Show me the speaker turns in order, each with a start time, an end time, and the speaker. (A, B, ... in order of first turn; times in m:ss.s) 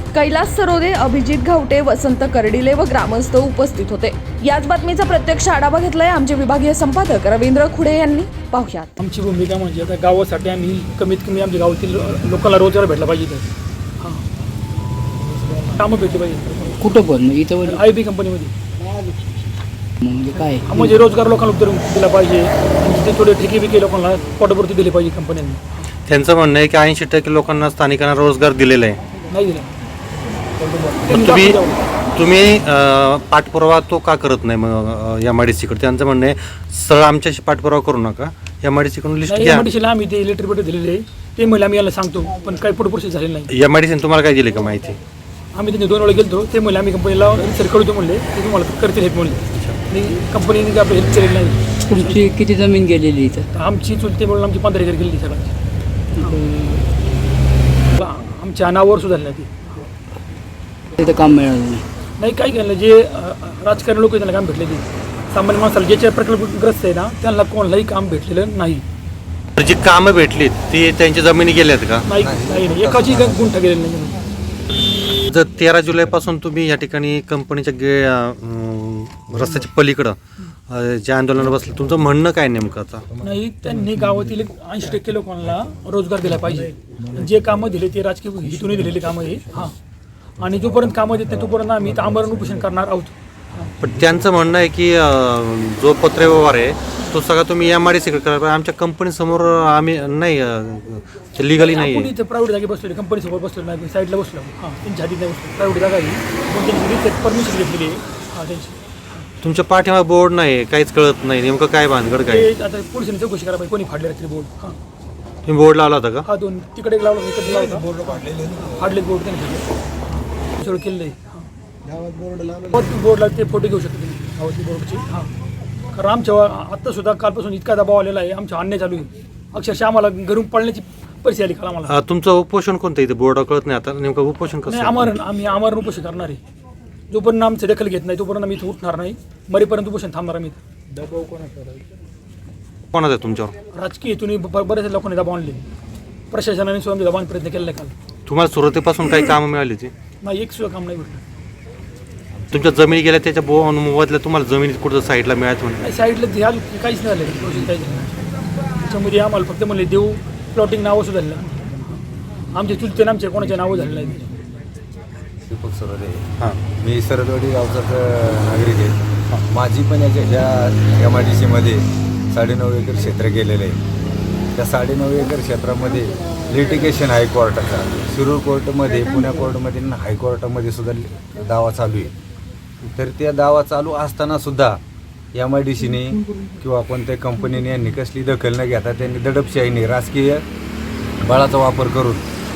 0:00.1-0:08.9 A
0:09.0-0:14.2 B
0:15.6-0:16.9 B
0:16.8-0:17.8 C
0:17.6-0:18.5 B
0:20.0-0:20.9 C
0:20.6-0:25.8 B
0:26.1-0:29.0 D
0:29.3-0:29.7 B
0:30.7-0:31.8 B
0:31.1-0:31.6 D
0:32.2-0:39.7 D
0:39.3-0:43.5 B
0:43.5-0:45.0 D
0:45.5-0:52.2 B
0:51.9-0:53.4 C
0:53.5-0:55.5 B
0:56.2-0:56.9 C
0:57.9-0:59.9 B
1:01.0-1:01.8 C
1:02.2-1:08.8 B
1:09.6-1:12.1 D
1:12.1-1:14.2 B
1:12.2-1:13.5 E
1:15.3-1:20.2 D
1:20.7-1:23.1 D
1:23.2-1:29.8 B
1:30.4-1:33.7 B
1:33.8-1:42.1 D
1:41.6-1:49.2 B
1:49.4-1:52.5 D
1:52.2-1:54.8 B
1:55.4-1:56.2 D
1:56.2-2:01.5 B
2:02.6-2:05.3 B
2:05.9-2:11.9 B
2:11.9-2:15.1 D
2:14.6-2:16.4 B
2:17.1-2:20.6 B
2:22.9-2:23.5 D
2:23.7-2:25.6 B
2:26.3-2:27.9 B
2:28.2-2:29.9 D
2:30.2-2:31.2 B
2:32.5-2:35.9 D
2:35.8-2:38.2 B
2:38.8-2:44.4 B
2:45.4-2:49.0 E
2:49.5-2:53.8 E
2:54.5-3:02.1 E
3:02.9-3:04.8 E
3:05.3-3:10.4 E
3:11.2-3:12.2 E